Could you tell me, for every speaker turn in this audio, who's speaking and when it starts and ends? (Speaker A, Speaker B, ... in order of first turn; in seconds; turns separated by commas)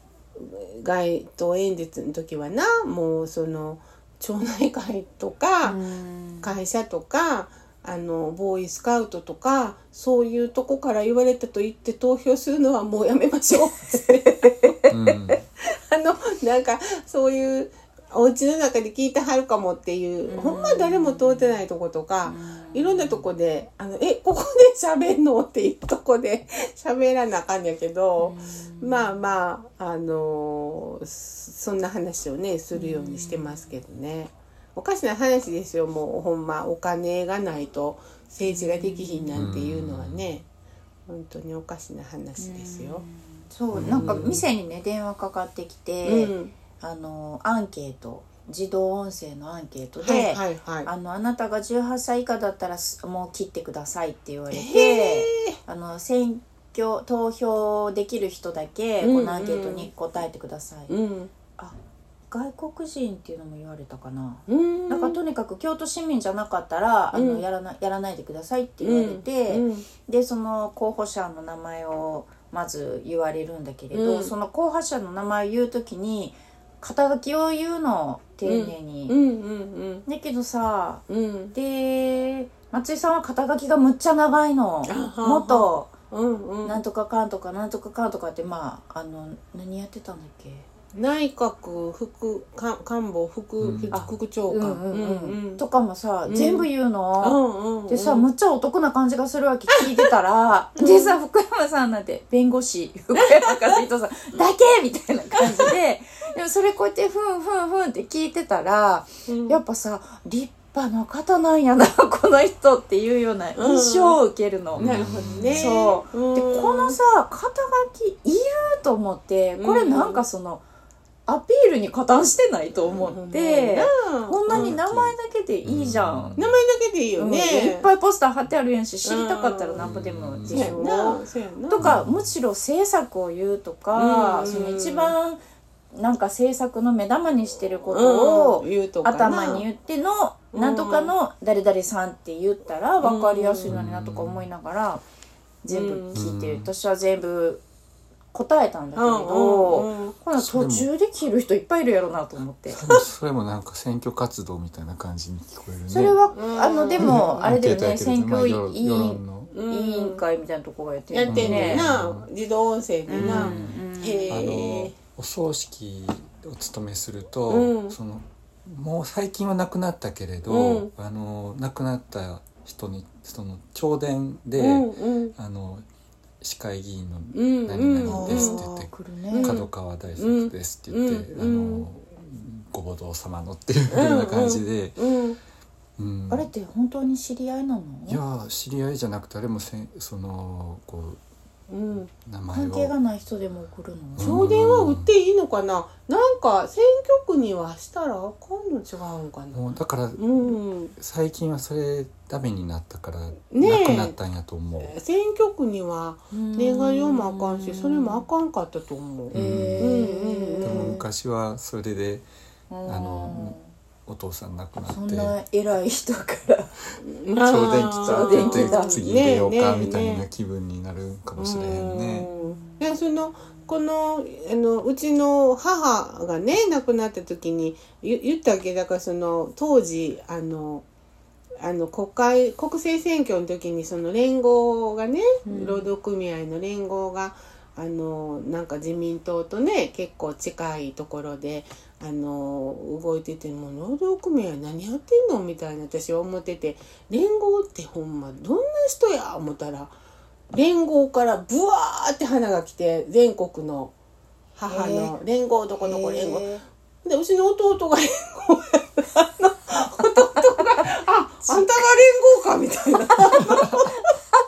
Speaker A: 0.3-5.8, Speaker B: 5.6-6.6, Speaker A: 6.4-14.8, Speaker C: 14.9-15.4, Speaker A: 15.6-40.5, Speaker B: 20.3-21.6, Speaker B: 22.2-23.2, Speaker B: 28.2-29.2, Speaker B: 32.7-33.8, Speaker B: 38.5-39.4, Speaker C: 39.3-40.2, Speaker A: 41.1-43.0, Speaker B: 42.4-60.9, Speaker C: 43.7-44.4, Speaker A: 43.7-44.4, Speaker A: 46.0-46.5, Speaker A: 50.0-50.9, Speaker A: 54.5-55.6, Speaker A: 59.0-59.9, Speaker A: 60.9-61.3, Speaker B: 62.3-79.2, Speaker A: 64.5-65.2, Speaker A: 67.1-67.4, Speaker A: 68.8-69.9, Speaker A: 73.9-74.3, Speaker A: 78.4-80.0, Speaker B: 80.0-85.9, Speaker A: 81.1-81.5, Speaker A: 84.8-86.8, Speaker B: 86.6-90.7, Speaker A: 90.9-95.6, Speaker C: 93.6-94.1, Speaker B: 93.9-114.9, Speaker A: 96.2-96.7, Speaker A: 97.2-98.3, Speaker A: 99.8-100.1, Speaker A: 100.8-101.2, Speaker A: 109.3-109.6, Speaker A: 113.5-114.2, Speaker C: 114.7-115.7, Speaker A: 114.8-117.0, Speaker B: 115.5-120.6, Speaker A: 119.6-120.2, Speaker B: 121.3-126.3, Speaker A: 122.8-124.8, Speaker C: 124.5-126.5, Speaker A: 126.4-127.9, Speaker B: 127.2-135.4, Speaker A: 129.0-129.8, Speaker C: 129.8-130.6, Speaker A: 130.5-132.0, Speaker C: 131.8-132.3, Speaker A: 133.9-135.1, Speaker B: 135.9-145.0, Speaker A: 137.9-139.7, Speaker A: 140.5-141.1, Speaker A: 143.0-143.8, Speaker C: 143.7-144.4, Speaker B: 145.6-147.6, Speaker A: 145.7-146.3, Speaker C: 146.1-146.7, Speaker B: 148.3-152.8, Speaker A: 148.9-150.2, Speaker C: 150.3-150.9, Speaker C: 152.8-156.2, Speaker B: 155.9-161.9, Speaker A: 156.3-157.6, Speaker C: 157.0-159.5, Speaker A: 159.5-160.2, Speaker A: 161.1-164.9, Speaker C: 161.3-162.3, Speaker B: 163.1-164.5, Speaker C: 163.2-163.8, Speaker C: 164.3-175.8, Speaker A: 167.5-167.9, Speaker A: 170.5-170.9, Speaker A: 174.6-175.3, Speaker C: 176.4-185.0, Speaker A: 177.3-178.6, Speaker B: 178.1-179.6, Speaker A: 179.3-181.8, Speaker A: 183.9-185.4, Speaker C: 186.0-186.5, Speaker B: 186.3-188.2, Speaker C: 188.1-191.2, Speaker A: 191.7-192.1, Speaker C: 192.1-192.9, Speaker B: 192.5-194.5, Speaker C: 194.2-195.1, Speaker A: 194.2-199.6, Speaker C: 199.5-204.9, Speaker A: 200.2-200.9, Speaker A: 203.5-204.2, Speaker A: 204.8-211.0, Speaker B: 206.3-208.2, Speaker C: 209.3-210.1, Speaker B: 209.3-211.0, Speaker C: 210.6-212.3, Speaker B: 212.7-213.7, Speaker C: 212.8-215.4, Speaker B: 214.9-216.8, Speaker A: 217.0-220.2, Speaker C: 217.3-222.3, Speaker B: 218.0-219.0, Speaker A: 221.4-230.8, Speaker B: 222.3-222.8, Speaker A: 231.6-249.9, Speaker B: 235.4-235.9, Speaker A: 250.5-253.9, Speaker A: 254.6-256.5, Speaker B: 254.7-255.1, Speaker B: 255.8-256.6, Speaker A: 257.0-264.1, Speaker B: 263.1-264.1